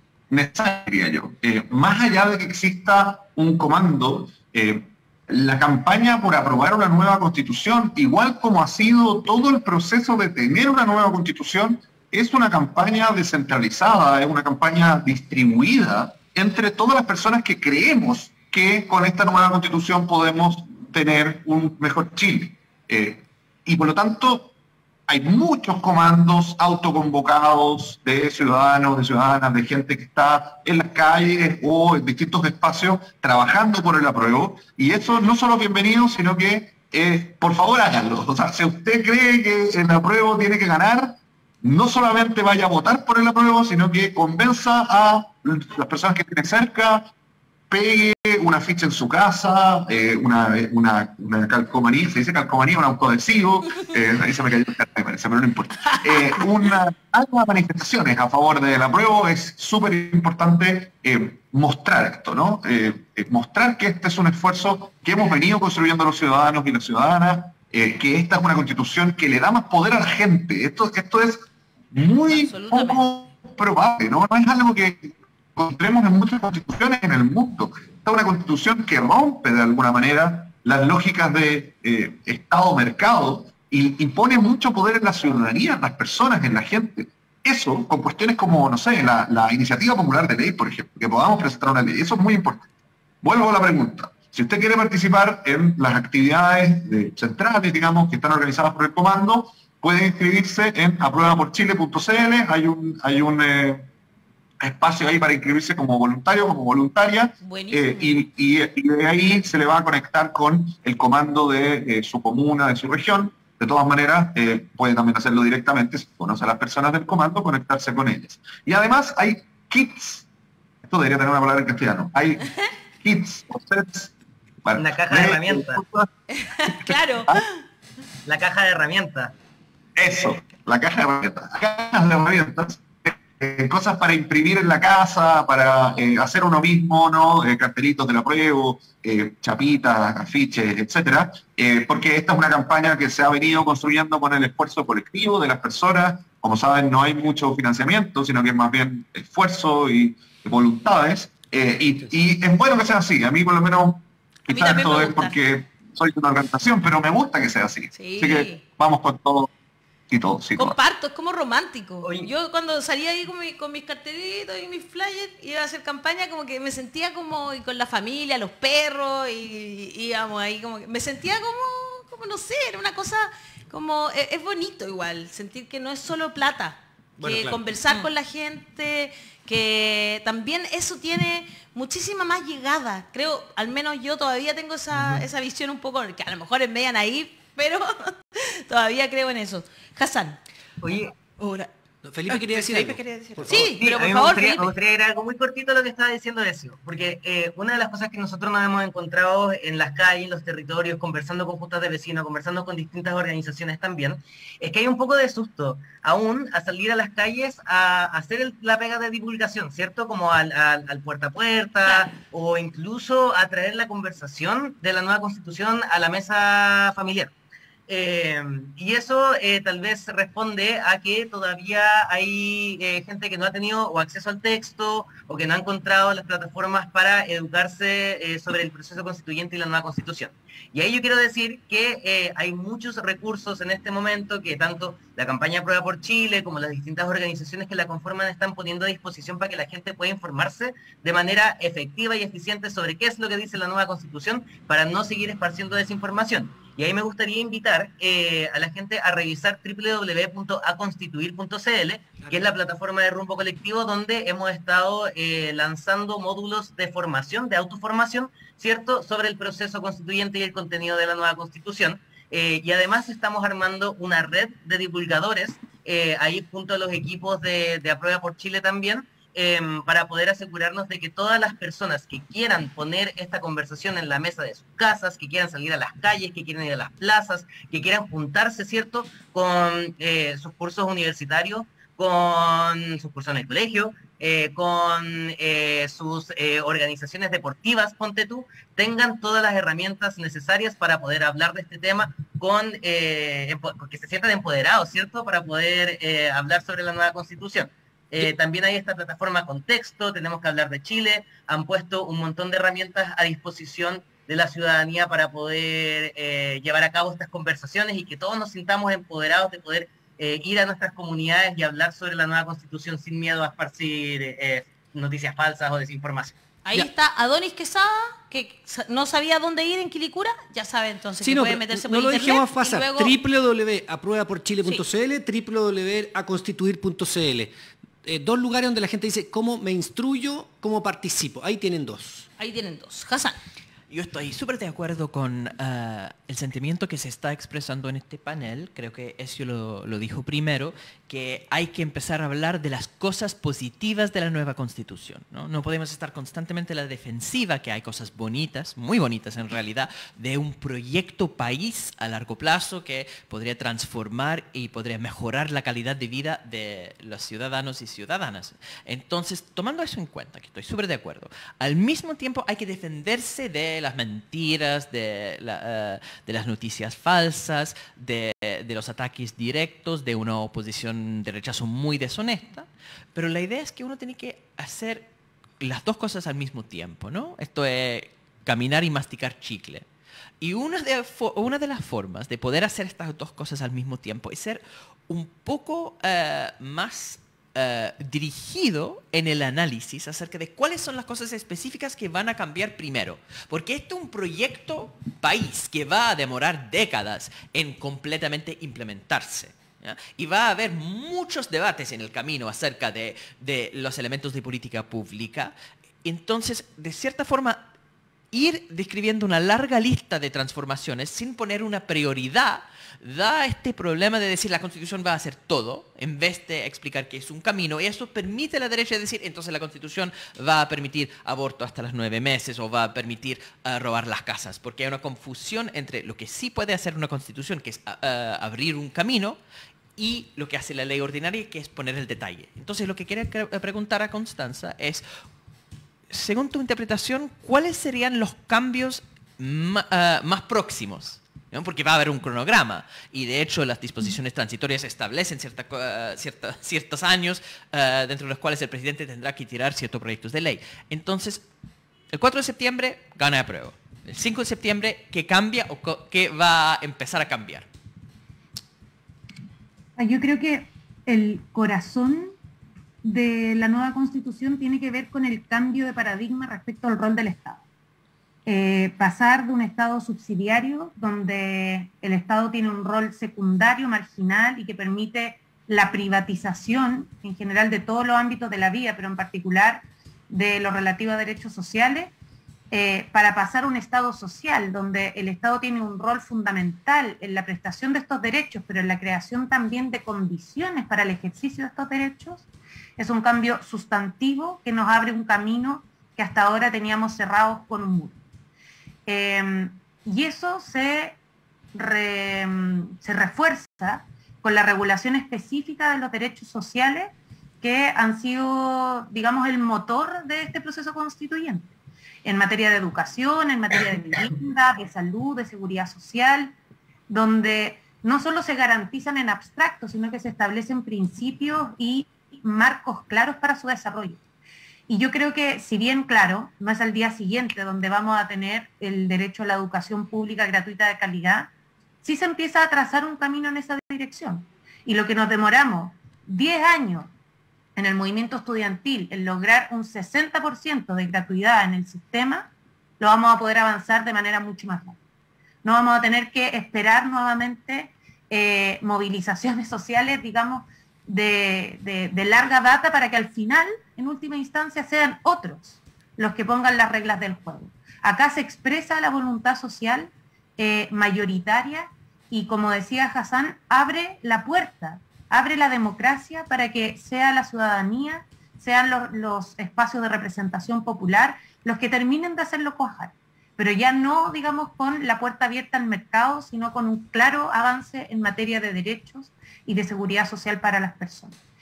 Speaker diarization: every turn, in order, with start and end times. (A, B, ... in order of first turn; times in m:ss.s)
0:00.3-0:24.5 A
0:25.1-0:47.1 A
0:47.7-1:32.7 A
1:12.3-1:13.1 B
1:33.2-1:43.9 A
1:44.6-2:00.3 A
1:47.4-1:48.2 B
2:00.8-2:02.5 A
2:03.0-2:04.1 A
2:04.6-2:06.1 A
2:04.8-2:05.8 C
2:06.3-2:07.6 B
2:06.8-2:07.4 A
2:08.2-2:09.3 C
2:10.0-2:39.5 A
2:34.5-2:35.4 B
2:37.9-2:38.6 B
2:40.1-2:40.8 A
2:40.6-3:10.4 B
2:42.0-2:42.3 C
2:57.2-2:57.7 D
3:04.9-3:05.2 D
3:10.8-3:11.1 C
3:11.2-3:11.7 E
3:12.0-3:13.7 D
3:12.3-3:13.7 E
3:13.5-3:14.7 B
3:13.8-3:37.3 C
3:37.9-5:16.4 C
4:12.2-4:12.5 D
5:16.6-5:23.2 B
5:21.2-5:27.5 D
5:28.0-5:32.3 D
5:32.4-5:33.4 B
5:33.9-6:19.9 E
6:20.4-6:47.7 E
6:48.3-7:09.4 E
7:10.0-7:15.0 E
7:16.1-7:31.4 E
7:32.1-7:37.7 E
7:40.0-7:42.3 F
7:43.0-7:47.6 F
7:48.4-8:02.1 F
8:02.7-8:12.4 F
8:13.0-8:18.2 F
8:19.0-8:21.2 F
8:21.7-8:36.5 F
8:37.1-8:44.2 F
8:44.9-8:51.5 F
8:52.0-8:57.1 F
8:57.8-9:05.0 F
9:05.6-9:41.4 F